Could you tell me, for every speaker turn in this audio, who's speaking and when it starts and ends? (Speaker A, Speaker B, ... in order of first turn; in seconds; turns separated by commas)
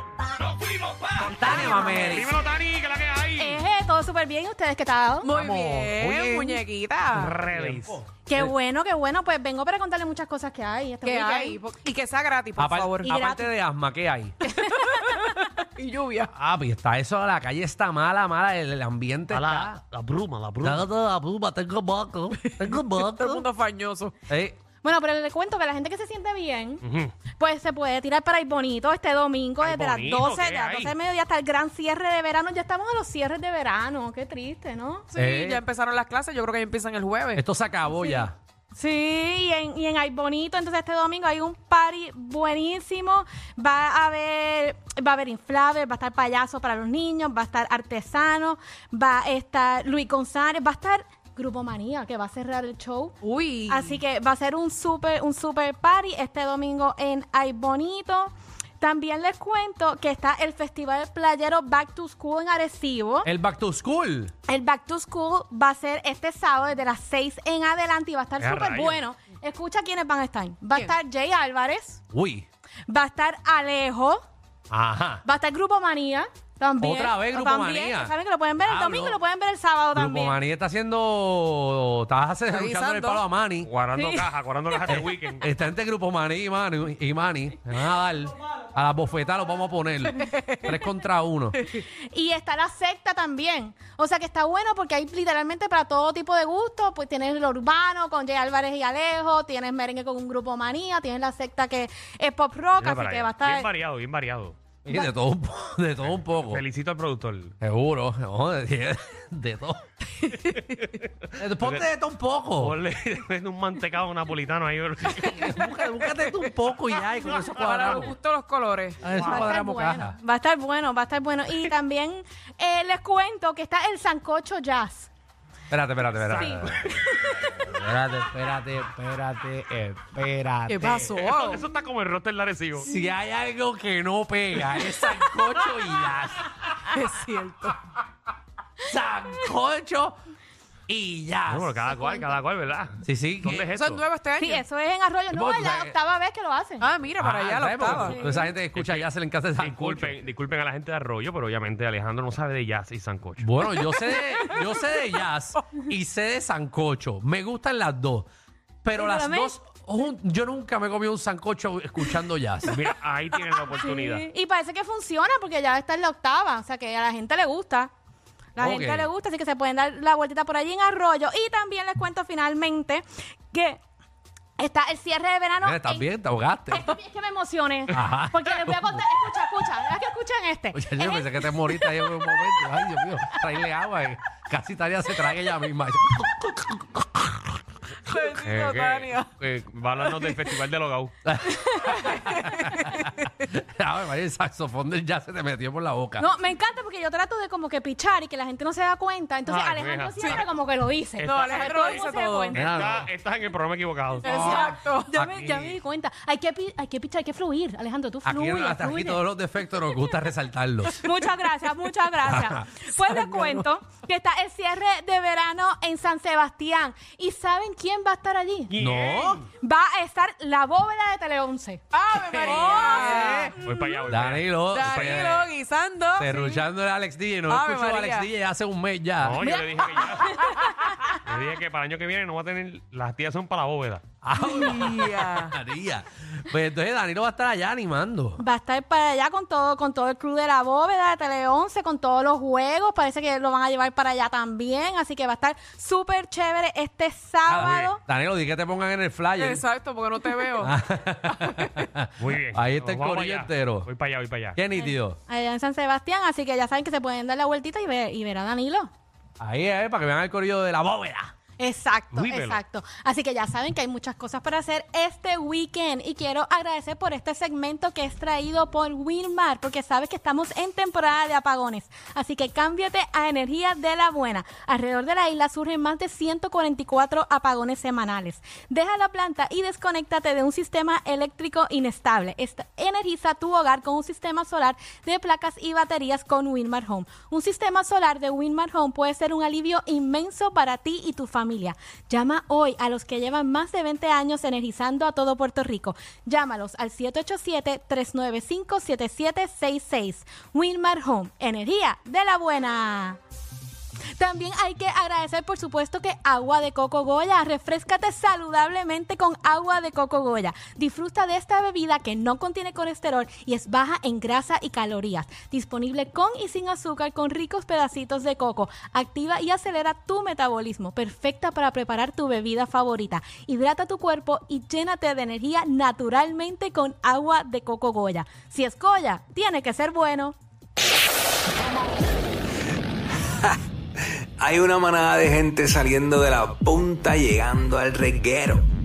Speaker A: 0.5-3.6, Speaker B: 1.1-2.4, Speaker C: 3.4-5.3, Speaker D: 5.2-7.4, Speaker B: 5.3-6.6, Speaker A: 7.1-8.0, Speaker B: 7.5-8.4, Speaker C: 8.3-11.6, Speaker D: 11.0-13.1, Speaker B: 12.6-14.4, Speaker C: 13.1-13.4, Speaker D: 14.5-16.3, Speaker C: 14.6-15.5, Speaker B: 16.3-19.8, Speaker A: 19.3-20.9, Speaker B: 20.6-23.5, Speaker D: 22.5-24.1, Speaker B: 24.3-24.6, Speaker C: 24.8-26.8, Speaker A: 26.8-27.1, Speaker C: 27.4-35.1, Speaker A: 29.6-30.9, Speaker D: 35.1-37.4, Speaker B: 35.2-35.6, Speaker B: 37.4-38.4, Speaker C: 37.9-53.1, Speaker D: 53.2-54.0, Speaker C: 53.7-63.3, Speaker B: 63.2-64.3, Speaker C: 64.5-72.0, Speaker A: 68.4-69.0, Speaker B: 72.1-72.5, Speaker C: 72.9-74.2, Speaker A: 74.7-75.2, Speaker C: 75.2-80.4, Speaker B: 76.8-79.2, Speaker B: 79.9-83.7, Speaker D: 82.5-83.2, Speaker A: 83.6-85.5, Speaker C: 84.0-84.3, Speaker B: 84.9-91.6, Speaker D: 90.2-90.7, Speaker C: 91.9-103.7, Speaker A: 102.8-104.6, Speaker B: 104.8-106.6, Speaker A: 106.5-107.5, Speaker B: 107.6-109.8, Speaker A: 110.6-111.8, Speaker B: 111.4-112.8, Speaker A: 112.6-115.7, Speaker B: 115.0-118.2, Speaker A: 117.3-118.0, Speaker D: 117.5-119.0, Speaker B: 119.0-120.2, Speaker C: 119.2-125.1, Speaker A: 119.2-119.5, Speaker B: 125.7-126.9, Speaker A: 126.2-126.9, Speaker C: 126.3-127.5, Speaker B: 127.5-131.1, Speaker D: 130.7-131.6, Speaker A: 130.8-132.9, Speaker B: 132.8-136.7, Speaker D: 136.9-137.8, Speaker B: 138.8-140.2, Speaker B: 140.9-141.8, Speaker A: 141.5-144.0, Speaker C: 141.9-142.4, Speaker B: 143.0-143.8, Speaker D: 143.7-144.6, Speaker C: 144.4-146.9, Speaker B: 145.3-146.0, Speaker D: 146.8-148.2, Speaker B: 147.2-150.2, Speaker C: 148.0-148.5, Speaker A: 148.7-149.1, Speaker A: 149.6-153.5, Speaker B: 153.4-158.3, Speaker B: 158.8-162.8, Speaker C: 158.9-159.6, Speaker A: 162.7-164.3, Speaker C: 163.8-167.9, Speaker C: 168.6-173.8, Speaker B: 168.6-169.1, Speaker C: 174.6-176.1, Speaker B: 175.6-176.9, Speaker C: 176.7-182.1, Speaker B: 177.9-179.0, Speaker B: 180.7-187.6, Speaker D: 188.0-189.3, Speaker A: 188.4-191.2, Speaker B: 191.3-196.3, Speaker D: 191.7-193.3, Speaker C: 196.2-202.9, Speaker A: 199.5-200.5, Speaker D: 201.2-202.6, Speaker A: 201.2-202.0, Speaker A: 202.5-204.7, Speaker B: 202.6-203.1, Speaker D: 204.2-205.1, Speaker C: 204.2-209.2, Speaker B: 205.2-205.8, Speaker B: 208.2-211.0, Speaker C: 211.0-218.7, Speaker B: 212.2-213.6, Speaker A: 218.7-219.5, Speaker B: 218.8-219.4, Speaker C: 219.6-223.5, Speaker D: 221.9-224.0, Speaker B: 223.1-223.5, Speaker A: 223.6-225.4, Speaker B: 224.1-225.5, Speaker D: 224.7-226.6, Speaker B: 226.2-229.4, Speaker D: 227.5-228.3, Speaker A: 229.2-230.4, Speaker C: 229.4-230.9, Speaker D: 230.6-231.1, Speaker A: 231.2-234.0, Speaker B: 234.2-238.4, Speaker D: 234.4-235.5, Speaker C: 238.4-248.0, Speaker B: 247.5-249.7, Speaker A: 247.6-247.9, Speaker D: 249.4-250.7, Speaker B: 250.5-253.9, Speaker A: 252.2-254.6, Speaker B: 254.6-255.2, Speaker C: 254.7-258.9, Speaker B: 259.4-261.3, Speaker C: 261.6-303.2, Speaker A: 262.1-262.6, Speaker C: 304.2-330.4, Speaker E: 333.3-338.7